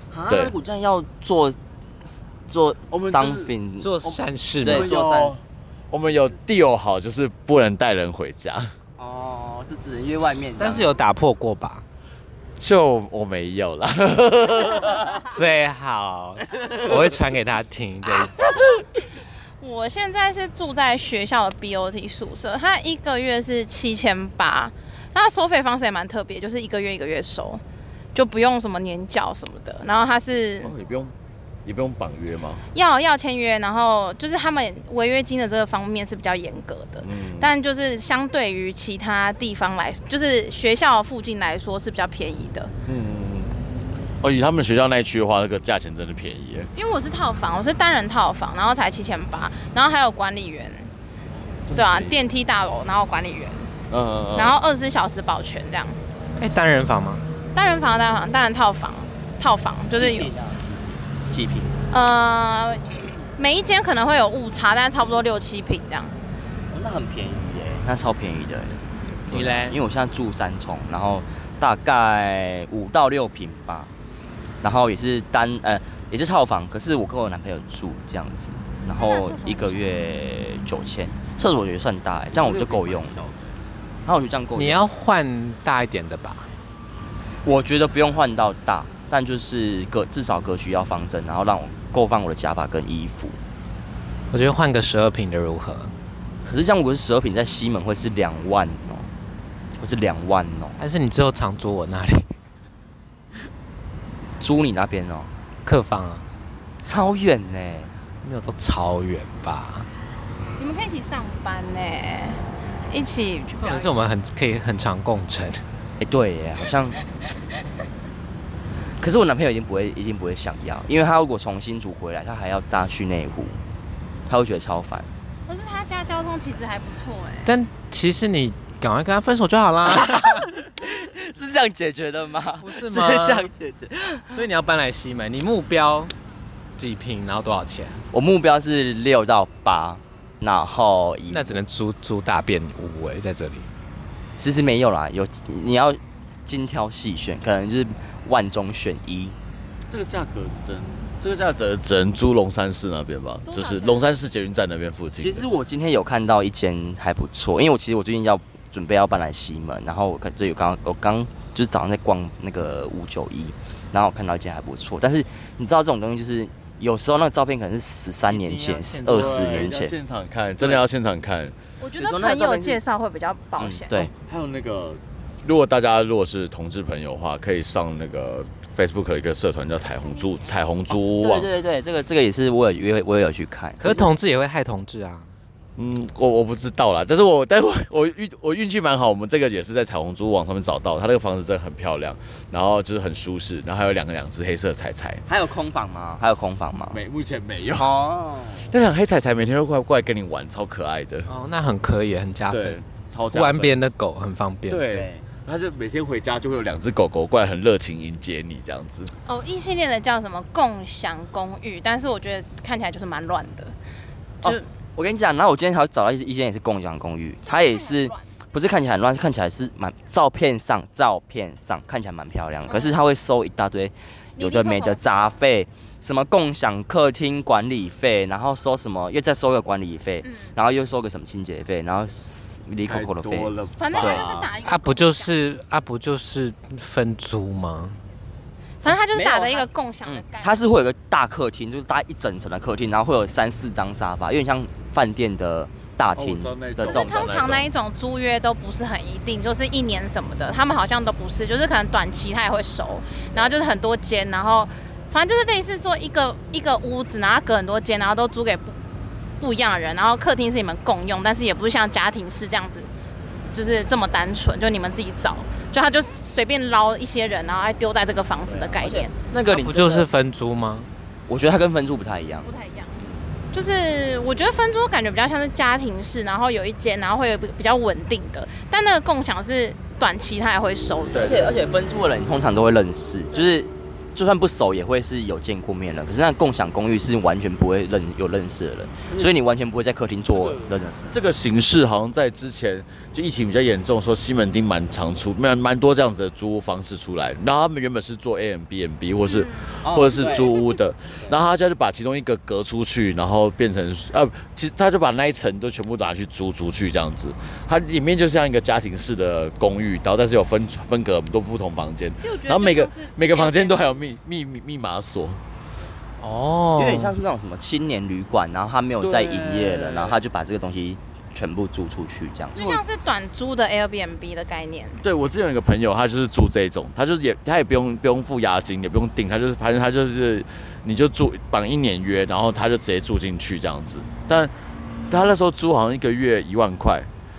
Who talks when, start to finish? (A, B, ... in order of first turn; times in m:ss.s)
0:00.1-0:05.4 A
0:00.3-0:00.6 B
0:02.9-0:03.5 B
0:03.8-0:04.9 C
0:04.6-0:08.7 B
0:09.0-0:10.9 A
0:10.6-0:11.8 C
0:12.6-0:15.3 B
0:15.3-0:18.5 C
0:19.6-0:27.6 D
0:28.1-0:30.7 D
0:30.6-0:32.6 B
0:32.7-0:42.7 D
0:37.0-0:37.5 B
0:42.8-0:43.6 B
0:44.2-0:46.7 B
0:46.7-0:50.9 D
0:51.6-0:52.2 B
0:51.7-0:53.7 D
0:53.9-0:54.6 B
0:54.3-0:56.0 D
0:56.4-0:57.2 C
0:57.5-1:00.3 D
0:59.9-1:01.8 A
1:01.9-1:06.1 D
1:06.7-1:13.9 A
1:08.9-1:09.2 D
1:09.3-1:09.8 C
1:14.6-1:23.1 A
1:19.0-1:19.8 D
1:22.3-1:23.5 B
1:24.0-1:24.8 A
1:24.6-1:26.5 C
1:27.4-1:33.4 A
1:34.3-1:35.9 C
1:36.4-1:39.1 A
1:39.8-1:40.8 A
1:40.8-1:42.3 C
1:44.4-1:45.3 A
1:45.6-1:46.3 C
1:46.8-1:47.9 A
1:48.2-1:49.9 C
1:50.6-1:53.9 D
1:53.6-1:55.6 C
1:56.0-1:57.0 A
1:59.0-2:03.6 A
2:04.3-2:05.1 A
2:05.5-2:07.5 D
2:07.4-2:10.3 C
2:09.9-2:14.4 A
2:12.6-2:13.5 C
2:14.3-2:16.1 C
2:16.8-2:18.0 C
2:18.1-2:21.5 A
2:21.3-2:23.7 C
2:24.4-2:29.3 A
2:29.9-2:35.5 B
2:33.4-2:34.1 D
2:35.2-2:49.9 A
2:48.3-2:49.7 C
2:49.1-2:51.6 B
2:51.8-2:54.0 D
2:52.0-2:52.8 A
2:53.6-2:54.1 A
2:54.2-3:01.5 B
3:01.2-3:04.1 A
3:03.8-3:05.3 C
3:05.8-3:15.2 B
3:15.3-3:17.0 A
3:16.9-3:17.9 B
3:17.7-3:18.7 A
3:18.7-3:21.3 B
3:21.3-3:22.8 C
3:22.5-3:23.7 B
3:23.3-3:24.9 C
3:24.7-3:29.1 B
3:24.9-3:25.2 A
3:29.2-3:33.7 D
3:34.4-3:34.7 D
3:34.4-3:54.4 A
3:37.4-3:38.2 D
3:42.7-3:42.9 D
3:44.4-3:45.3 D
3:50.2-3:50.5 D
3:52.9-3:54.5 B
3:53.8-3:55.3 D
3:54.6-3:58.0 C
3:58.8-4:00.6 D
3:58.9-4:07.5 A
4:06.1-4:07.7 B
4:06.8-4:18.8 D
4:19.4-4:22.9 D
4:23.5-4:29.1 D
4:28.4-4:30.1 A
4:29.3-4:30.9 C
4:31.3-4:33.3 A
4:32.4-4:41.4 D
4:41.1-4:41.5 B
4:41.1-4:51.2 A
4:50.3-5:15.4 B
4:59.2-5:00.8 D
4:59.8-5:00.5 A
5:12.2-5:14.0 D
5:16.2-5:17.1 C
5:16.8-5:22.8 A
5:19.0-5:20.2 B
5:22.5-5:25.0 D
5:25.0-5:34.5 B
5:35.1-5:37.1 B